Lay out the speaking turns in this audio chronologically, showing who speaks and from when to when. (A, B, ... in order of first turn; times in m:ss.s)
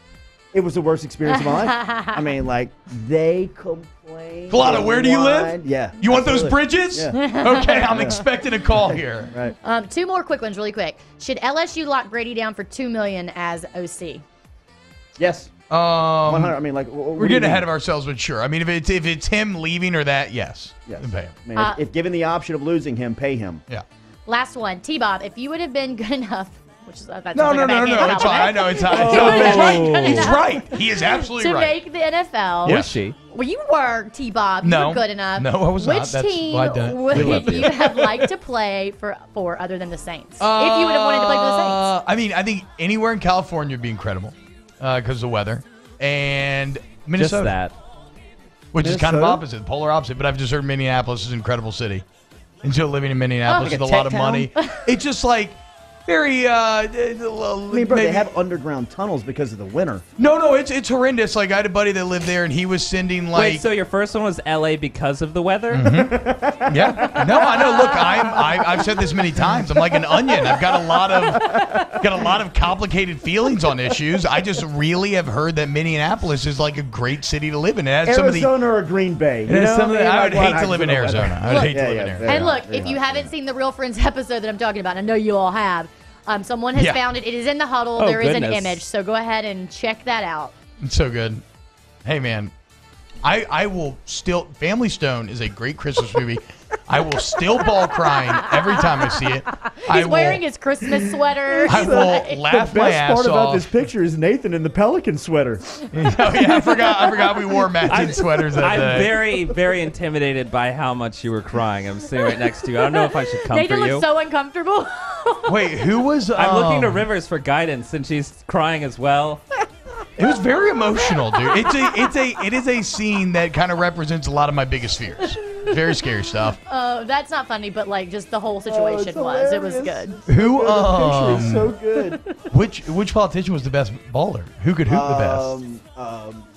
0:00.5-0:07.2 A
0:01.3-0:02.2 B
0:04.5-0:09.3 C
0:07.2-0:08.0 B
0:07.7-0:08.2 A
0:08.9-0:09.6 A
0:09.6-0:14.2 B
0:15.2-0:15.5 A
0:15.7-0:16.6 C
0:16.3-0:17.7 A
0:17.2-0:21.3 C
0:20.9-0:23.6 A
0:24.3-0:41.9 B
0:27.3-0:31.8 C
0:28.9-0:29.9 A
0:29.0-0:30.4 D
0:32.6-0:33.0 C
0:32.6-0:33.2 D
0:34.6-0:38.3 C
0:37.1-0:37.7 D
0:40.4-0:47.6 C
0:47.2-0:47.7 D
0:48.7-0:52.0 C
0:48.8-0:49.4 A
0:52.6-0:58.3 C
0:53.5-0:54.4 A
0:53.6-0:54.9 B
0:57.7-1:00.0 A
1:00.2-1:03.6 C
1:03.3-1:05.8 D
1:05.7-1:18.5 C
1:05.8-1:12.3 A
1:18.0-1:23.3 A
1:19.5-1:22.5 C
1:21.5-1:30.5 B
1:28.0-1:28.8 D
1:30.8-1:31.4 C
1:32.0-1:32.5 C
1:33.2-1:40.4 C
1:38.3-1:42.4 B
1:41.5-1:45.6 A
1:41.7-1:43.8 C
1:45.9-1:49.2 C
1:46.5-1:47.3 B
1:47.9-1:54.1 D
1:52.4-1:55.6 B
1:55.5-1:57.1 C
1:56.4-1:59.4 D
2:00.2-2:06.6 C
2:01.0-2:02.1 B
2:06.7-2:10.2 B
2:08.7-2:12.2 A
2:10.3-2:11.7 C
2:12.0-2:12.3 B
2:12.5-2:15.6 C
2:14.9-2:16.5 A